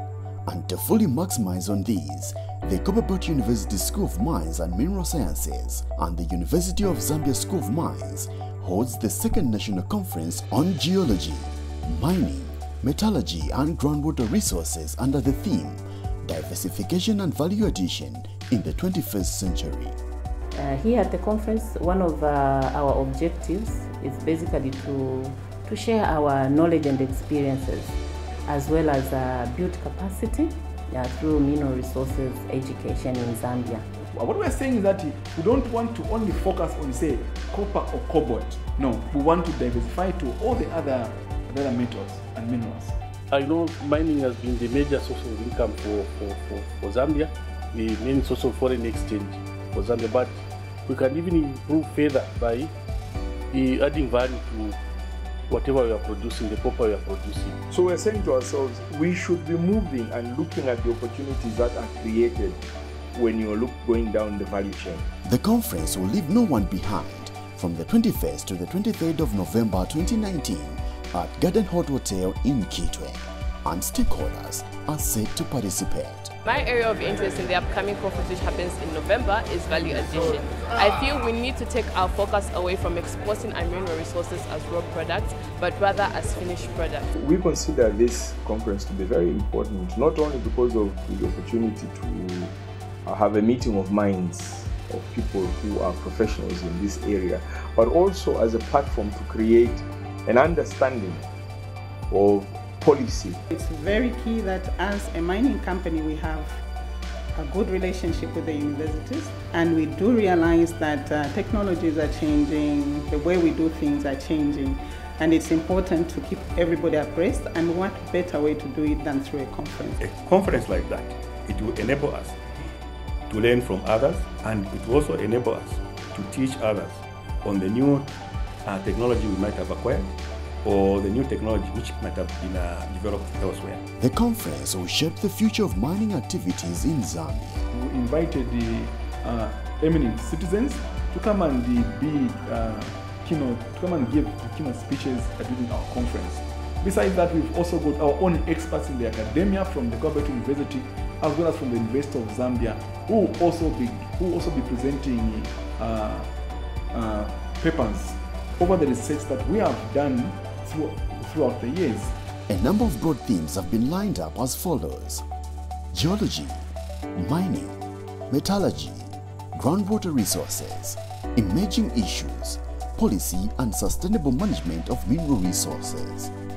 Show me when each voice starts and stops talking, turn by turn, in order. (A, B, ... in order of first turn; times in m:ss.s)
0:00.5-0:20.0 A
0:20.5-0:33.8 B
0:34.1-0:43.0 C
0:43.3-0:52.7 D
0:53.5-0:54.8 D
0:55.5-0:57.6 D
0:57.7-1:02.6 E
1:03.1-1:05.0 E
1:05.2-1:16.3 A
1:16.4-1:27.1 F
1:27.2-1:32.5 E
1:33.1-1:41.2 E
1:42.1-1:43.4 E
1:43.5-1:46.6 G
1:47.3-2:00.0 G
2:00.0-2:02.4 H
2:03.3-2:08.1 H
2:08.6-2:13.8 H
2:14.0-2:17.7 A
2:17.7-2:36.3 C
2:36.9-2:42.1 C
2:42.5-2:45.2 A
2:45.9-2:56.3 A